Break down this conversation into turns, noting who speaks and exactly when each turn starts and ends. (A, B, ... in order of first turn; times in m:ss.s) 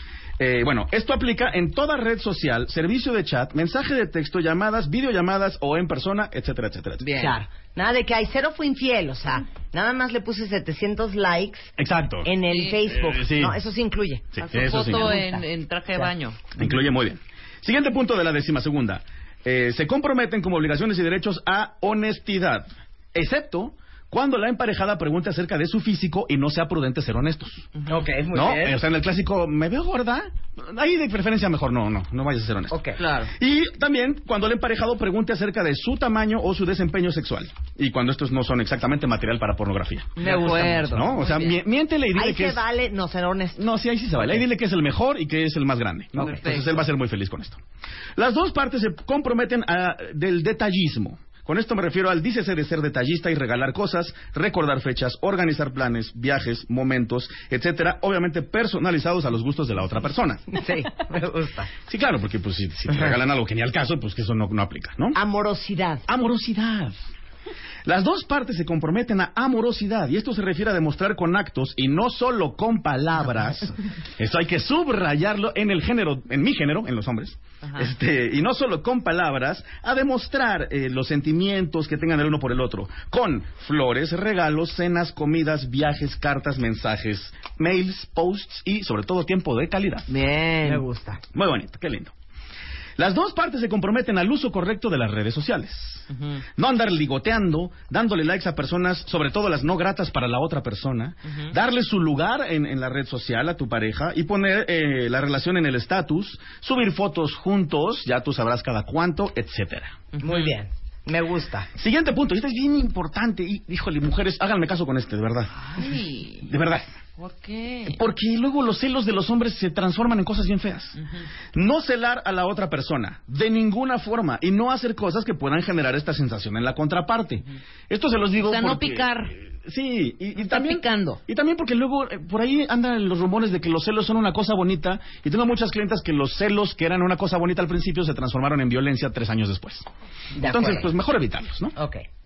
0:00.4-0:07.0 A
0:07.0-0:07.4 B
0:07.1-0:11.7 C
0:11.8-0:13.6 A
0:12.2-0:15.4 C
0:12.5-0:12.8 B
0:14.3-0:15.2 A
0:14.4-0:16.6 B
0:16.6-0:27.7 A
0:27.9-0:28.8 C
0:28.3-0:32.8 A
0:32.7-0:33.0 C
0:33.0-0:33.3 B
0:33.3-0:42.6 A
0:40.2-0:41.0 C
0:40.2-0:41.6 B
0:42.1-0:43.6 C
0:43.6-0:47.6 A
0:44.2-0:44.4 C
0:46.2-0:46.8 B
0:48.2-1:00.5 A
1:00.5-1:01.7 C
1:01.9-1:05.2 A
1:02.9-1:03.2 C
1:05.1-1:06.0 C
1:06.1-1:06.9 A
1:07.8-1:30.1 A
1:17.6-1:17.9 B
1:30.1-1:30.8 B
1:30.6-1:31.2 C
1:31.3-1:32.1 A
1:33.0-1:36.0 A
1:36.1-1:36.4 B
1:36.6-1:50.0 A
1:50.1-1:50.6 B
1:50.2-1:51.7 C
1:51.8-1:55.5 A
1:55.6-1:56.5 B
1:56.4-1:56.9 A
1:57.2-1:58.0 B
1:57.9-2:01.0 A
2:01.0-2:01.2 B
2:01.5-2:19.9 A
2:08.4-2:09.3 B
2:10.4-2:11.2 B
2:20.3-2:20.9 C
2:20.4-2:21.7 A
2:21.8-2:22.0 C